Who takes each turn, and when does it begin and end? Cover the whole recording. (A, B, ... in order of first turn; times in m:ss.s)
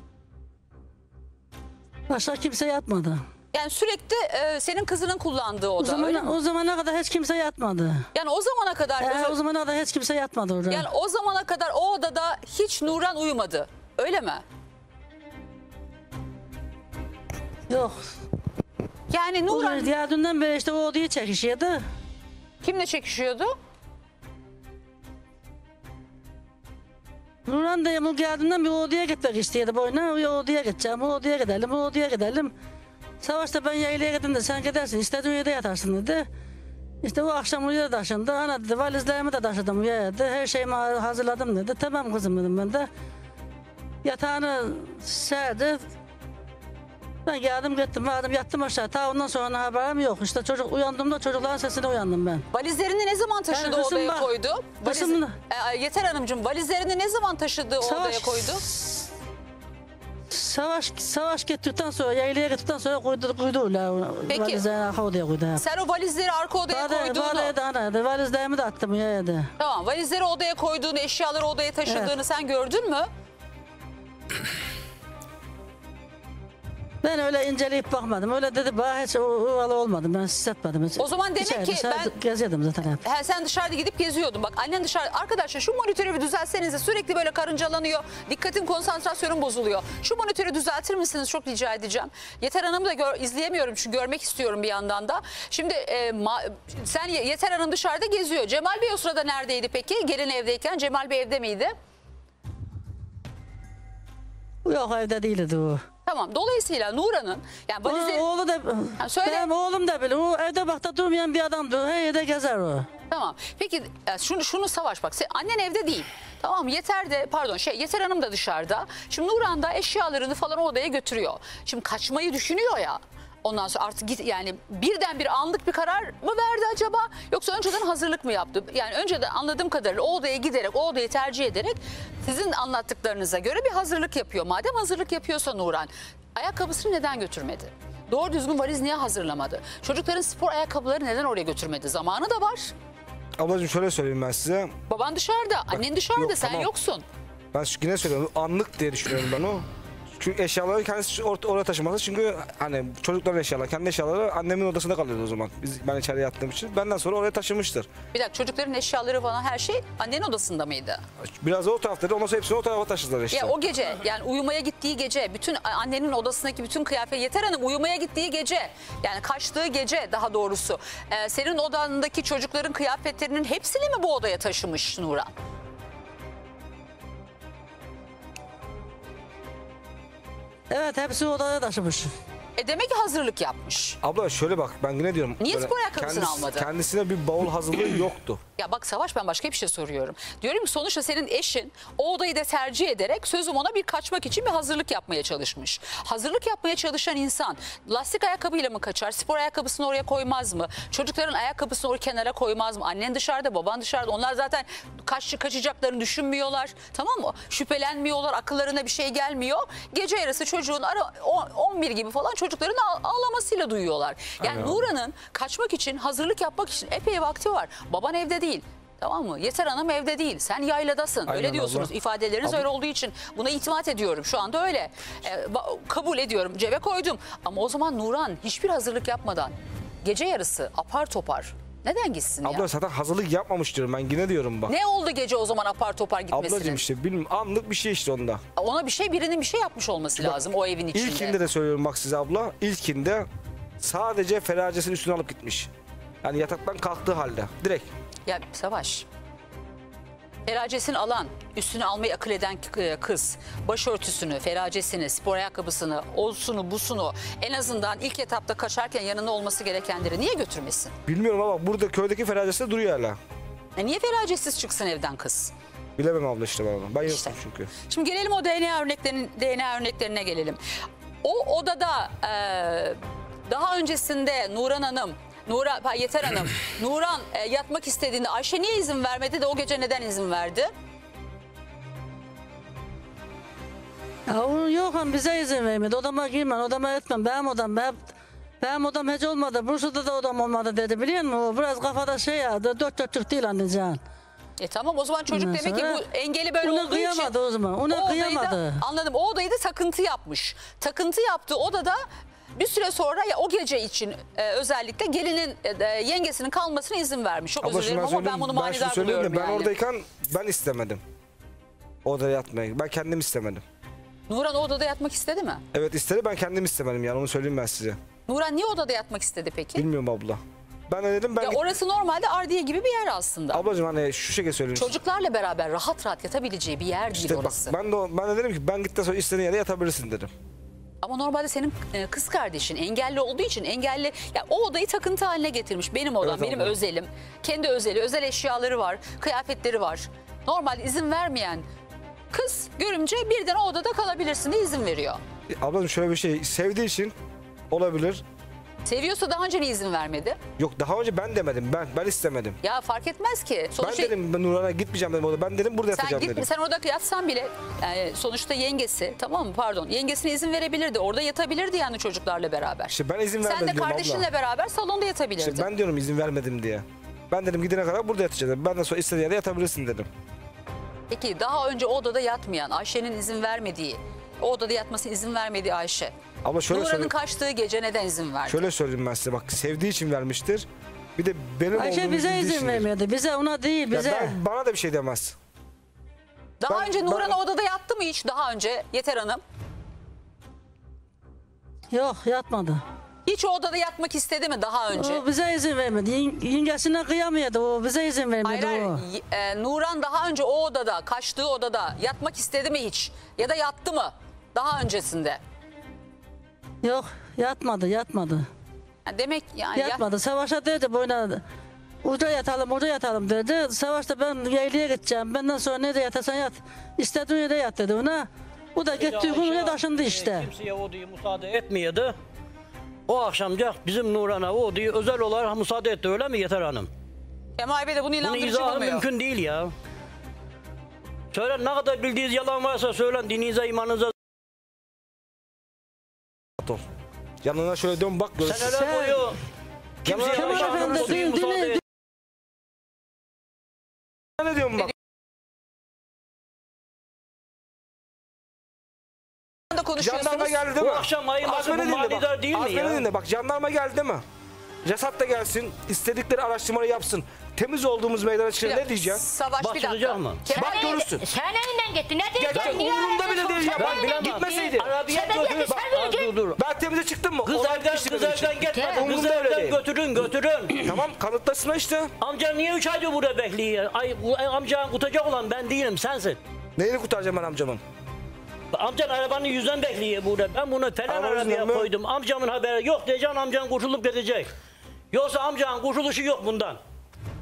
0:02.1-0:03.2 A
0:03.5-0:06.3 B
0:05.8-0:08.0 A
0:08.1-0:09.4 B
0:09.0-0:10.9 A
0:10.7-0:14.4 B
0:17.7-0:18.0 A
0:19.1-0:19.9 B
0:19.5-0:21.8 A
0:22.6-0:23.5 B
0:27.5-0:32.5 A
0:33.2-0:36.3 A
0:37.0-0:42.9 A
0:44.0-0:45.8 A
0:47.2-0:52.4 A
0:52.5-0:58.6 B
0:53.5-0:55.3 A
0:57.8-0:59.1 A
1:00.3-1:05.6 A
1:04.3-1:04.7 B
1:05.6-1:07.5 B
1:06.7-1:09.5 A
1:09.6-1:13.1 B
1:11.9-1:12.2 A
1:17.0-1:23.0 A
1:21.0-1:22.1 B
1:23.0-1:41.7 B
1:44.6-1:45.8 A
1:46.0-1:48.2 B
1:47.9-1:52.9 A
1:49.0-1:49.5 B
1:53.1-2:22.7 B
2:23.4-2:24.7 C
2:24.9-2:27.0 B
2:25.7-2:26.7 C
2:27.5-2:29.6 C
2:30.2-2:37.9 C
2:38.1-2:41.0 B
2:41.4-2:43.6 C
2:43.3-2:55.3 B
3:00.7-3:02.1 A
3:02.6-3:04.0 B
3:04.0-3:08.4 C
3:05.4-3:06.7 B
3:08.6-3:52.6 B
3:34.4-3:34.8 C
3:41.2-3:41.9 C
3:52.4-3:54.7 C
3:54.7-3:56.8 B
3:56.3-3:58.4 C
3:58.6-4:01.4 B
4:00.9-4:03.3 C
4:03.8-4:05.7 C
4:06.2-4:07.9 C
4:08.2-4:09.1 B
4:10.4-4:20.9 B
4:21.1-4:23.2 C
4:23.8-4:25.5 B
4:26.0-4:27.7 C
4:27.1-4:30.6 B
4:31.2-4:40.7 B
4:44.3-4:54.0 A
4:54.6-4:57.3 B
4:55.3-4:56.0 A
4:56.6-4:58.8 A
4:57.9-5:02.0 B
5:02.6-5:09.7 B
5:07.6-5:11.0 C
5:12.0-5:13.6 C
5:14.3-5:15.6 B
5:15.7-5:18.0 C
5:18.3-5:19.8 B
5:19.8-5:21.8 C
5:21.4-5:23.6 B
5:23.5-5:25.0 C
5:24.8-5:27.7 B
5:27.1-5:30.3 C
5:31.0-5:41.6 B
5:36.2-5:36.8 C
5:42.3-5:45.2 B
5:45.5-5:47.1 C
5:47.7-5:48.2 C
5:48.8-5:50.4 B
5:50.6-5:52.6 C
5:52.6-5:54.1 B
5:53.8-5:56.5 C
5:55.9-6:05.7 B
6:02.9-6:04.3 C
6:05.4-6:10.1 C
6:11.1-6:16.1 B
6:16.4-6:17.1 C
6:16.7-6:18.6 B
6:18.5-6:22.8 C
6:21.7-6:24.4 A
6:23.9-6:25.4 C
6:26.6-6:29.4 B
6:26.7-6:27.4 C
6:31.9-6:32.8 A
6:33.2-6:35.2 B
6:34.9-6:39.0 A
6:38.4-6:45.4 B
6:46.8-6:48.5 A
6:49.0-6:50.0 B
6:49.8-6:51.4 A
6:52.0-7:00.5 A
6:58.9-7:02.1 D
7:03.1-7:06.9 D
7:07.6-7:09.1 B
7:08.2-7:09.7 D
7:11.3-7:14.1 D
7:17.4-7:18.8 C
7:18.4-7:19.4 D
7:18.7-7:19.2 A
7:20.0-7:21.8 D
7:20.0-7:21.2 C
7:20.3-7:21.8 A
7:24.4-7:24.9 C
7:29.7-7:30.6 B
7:30.0-7:34.2 C
7:30.8-7:33.0 D
7:34.8-7:39.2 C
7:38.6-7:40.9 B
7:39.6-7:40.4 D
7:40.5-7:46.3 E
7:40.5-7:41.3 C
7:42.4-7:45.8 C
7:42.5-7:42.9 D
7:43.6-7:46.6 D
7:46.5-7:49.8 C
7:47.4-7:51.0 D
7:48.7-7:49.1 E
7:50.8-7:52.1 C
7:52.2-7:56.4 D
7:56.8-7:57.8 C
7:58.7-8:04.5 D
8:01.1-8:01.9 C
8:05.1-8:06.8 D